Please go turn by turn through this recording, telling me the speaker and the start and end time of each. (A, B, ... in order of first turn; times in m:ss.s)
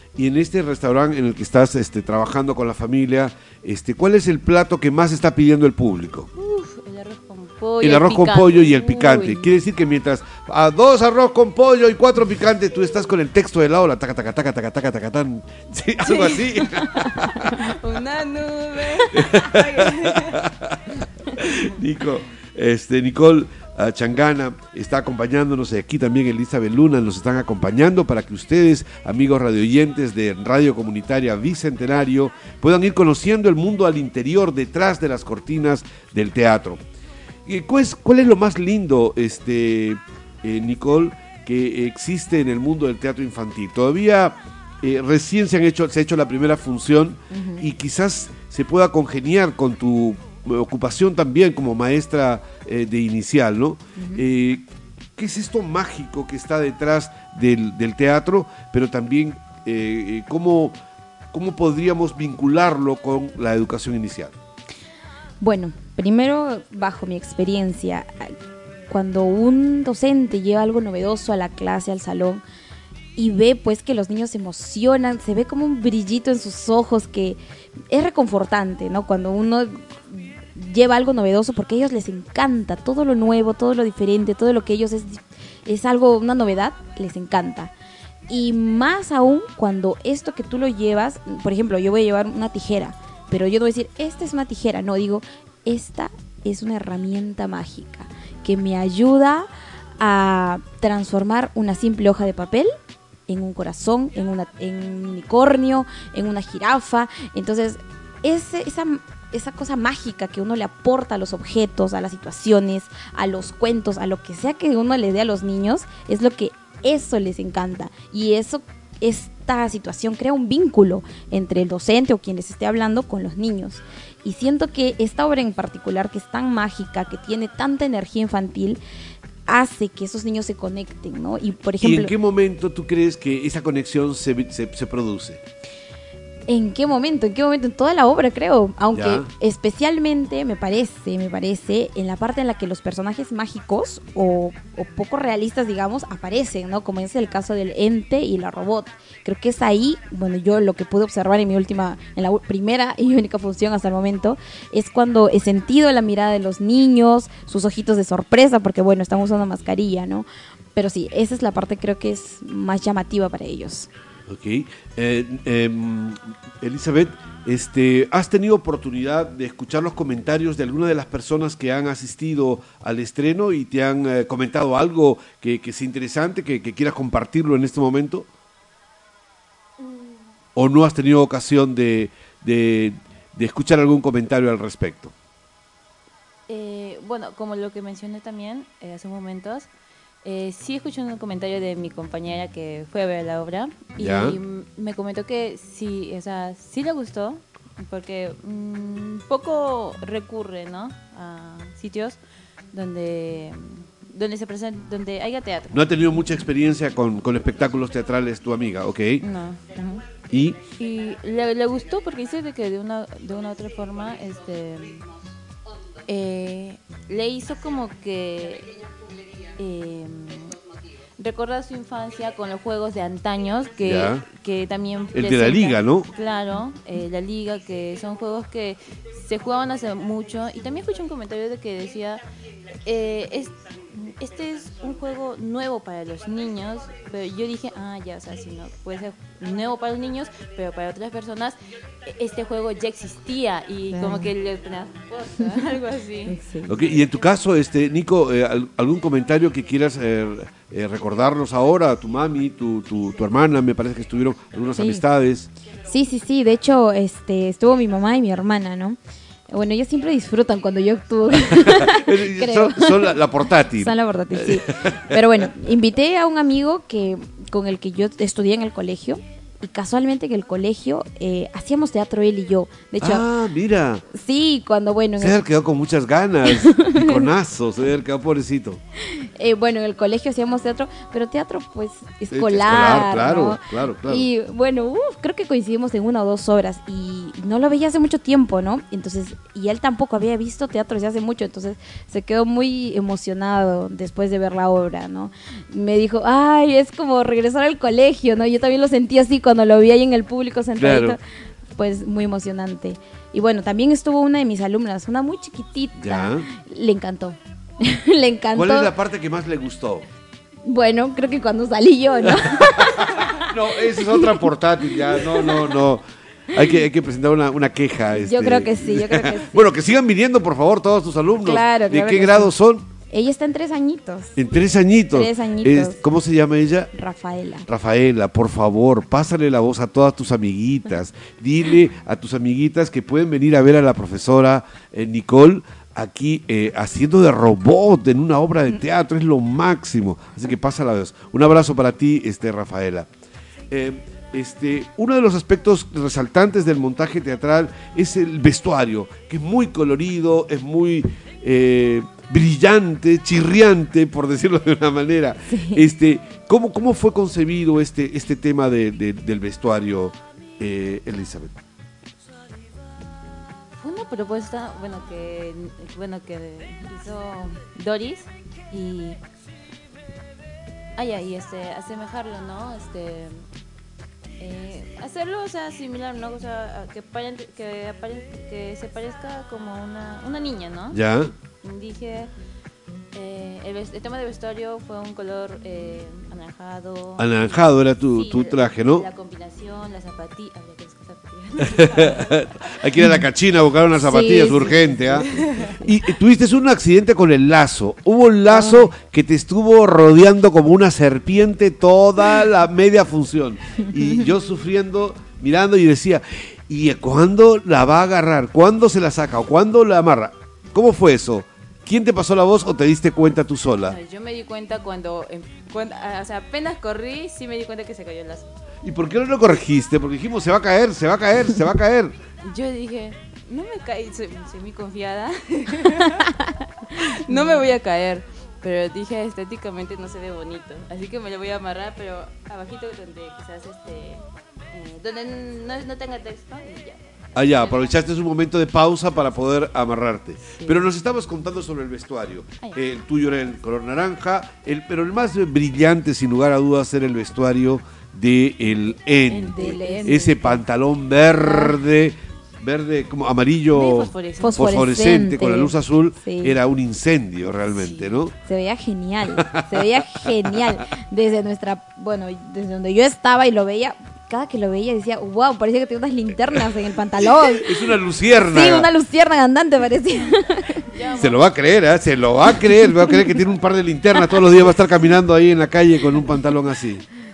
0:00.2-0:06.3 A
0:06.4-0:09.5 B
0:07.8-0:17.6 A
0:16.0-0:20.4 B
0:19.1-0:36.8 A
0:37.5-0:54.6 A
0:47.3-0:47.7 C
0:54.0-0:54.2 C
0:55.2-1:00.8 A
1:01.3-1:04.3 A
1:05.4-1:08.4 C
1:08.9-1:12.4 C
1:13.2-1:17.4 C
1:17.9-1:27.7 C
1:28.3-1:39.5 C
1:40.0-1:42.7 C
1:43.3-2:08.8 C
2:09.5-2:12.1 C
2:11.8-2:15.4 A
2:16.5-2:43.9 C
2:18.9-2:19.3 A
2:44.3-2:58.3 A
3:00.6-3:05.1 A
3:06.5-3:09.7 B
3:10.2-3:22.2 B
3:14.0-3:14.4 A
3:22.7-3:25.9 B
3:25.7-3:29.2 A
3:29.2-3:30.0 B
3:30.3-3:30.6 A
3:30.8-3:35.1 B
3:36.1-3:38.8 B
3:39.6-3:40.6 B
3:41.2-3:52.2 B
3:43.8-3:44.2 A
3:45.1-3:46.1 A
3:52.8-4:06.4 B
4:03.9-4:04.3 C
4:06.3-4:06.7 C
4:06.7-4:15.5 A
4:14.8-4:15.0 C
4:15.9-4:19.0 C
4:19.5-4:23.2 C
4:21.4-4:25.5 A
4:23.8-4:33.3 C
4:33.0-4:34.0 A
4:34.1-4:35.4 C
4:35.2-4:38.8 A
4:36.5-4:37.2 C
4:39.0-5:01.2 C
4:42.3-4:44.3 A
5:00.8-5:01.2 A
5:01.8-5:08.9 C
5:06.0-5:06.5 A
5:08.6-5:10.1 A
5:10.7-5:13.4 C
5:12.4-5:22.9 A
5:14.1-5:14.4 C
5:14.9-5:15.6 C
5:18.1-5:19.6 C
5:21.4-5:22.5 C
5:23.1-5:24.4 C
5:24.4-5:26.9 A
5:25.1-5:26.0 C
5:26.9-5:27.7 C
5:27.7-5:43.1 A
5:43.7-6:01.5 A
5:55.5-5:55.8 C
6:03.8-6:09.2 B
6:11.0-6:13.4 B
6:14.4-6:21.0 B
6:20.9-6:21.3 A
6:21.6-6:22.3 B
6:23.1-6:32.9 B
6:27.2-6:29.1 A
6:31.7-6:54.0 A
6:34.0-6:35.2 C
6:35.1-6:35.8 B
6:53.8-6:58.5 B
6:58.8-7:02.2 A
7:02.4-7:17.9 B
7:17.4-7:38.4 A
7:29.3-7:30.4 B
7:29.5-7:30.6 C
7:31.4-7:31.7 C
7:33.7-7:34.7 B
7:34.4-7:36.6 C
7:37.7-7:38.1 B
7:38.5-7:47.7 C
7:39.4-7:40.0 A
7:47.4-7:48.9 A
7:48.4-7:50.9 C
7:50.9-7:51.6 B
7:51.2-7:57.0 A